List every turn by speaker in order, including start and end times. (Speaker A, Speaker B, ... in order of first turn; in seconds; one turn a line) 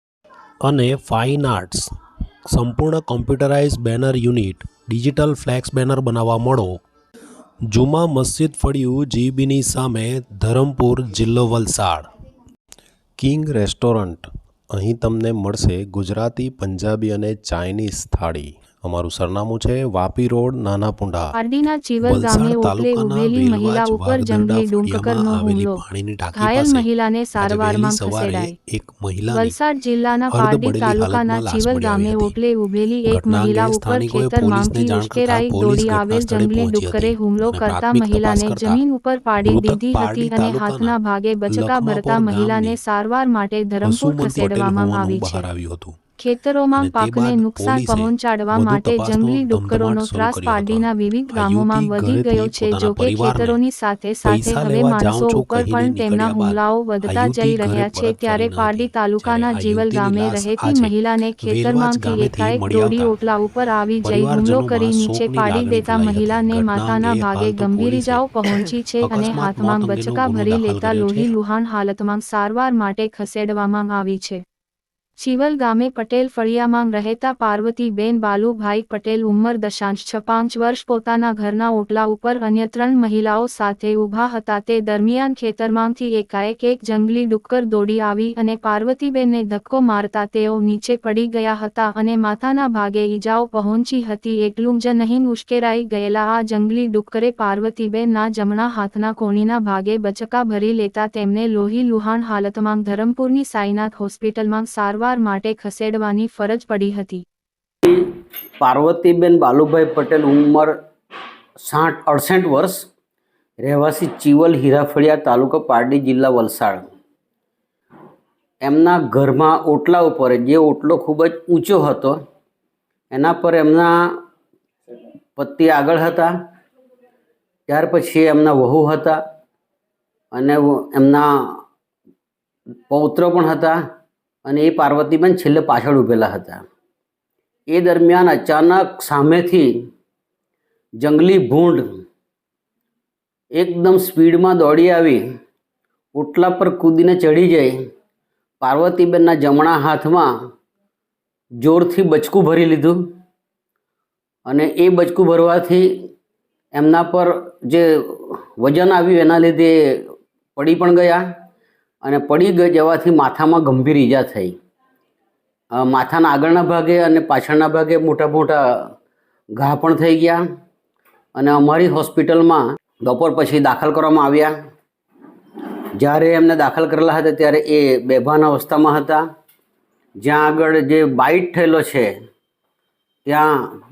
Speaker A: 0.6-1.9
Speaker A: 2.5-6.8
Speaker A: 7.7-12.1
Speaker A: 13.2-21.4
Speaker B: 21.3-25.8
Speaker A: 22.0-26.9
Speaker B: 26.3-28.5
Speaker A: 27.4-29.6
Speaker B: 29.3-45.5
Speaker A: 30.3-32.3
Speaker A: 33.1-38.8
Speaker A: 39.4-40.9
Speaker A: 41.5-42.8
Speaker A: 43.8-46.0
Speaker B: 46.2-74.4
Speaker A: 46.8-53.6
Speaker A: 54.2-63.1
Speaker A: 64.0-71.3
Speaker B: 75.2-107.2
Speaker C: 107.8-108.1
Speaker C: 108.6-110.7
Speaker C: 111.6-112.9
Speaker C: 113.6-116.8
Speaker C: 118.6-122.2
Speaker C: 123.1-123.9
Speaker C: 125.4-126.3
Speaker C: 127.7-129.2
Speaker C: 130.3-131.2
Speaker C: 132.9-133.8
Speaker C: 134.4-136.6
Speaker C: 137.7-139.7
Speaker C: 141.0-141.8
Speaker C: 143.5-145.2
Speaker C: 146.1-147.7
Speaker C: 148.6-150.3
Speaker C: 151.6-153.0
Speaker C: 154.4-155.8
Speaker C: 156.7-160.0
Speaker C: 160.6-161.2
Speaker C: 162.0-164.6
Speaker C: 165.7-168.8
Speaker C: 169.6-170.4
Speaker C: 171.3-174.5
Speaker C: 176.0-179.2
Speaker C: 180.2-182.1
Speaker C: 183.3-183.5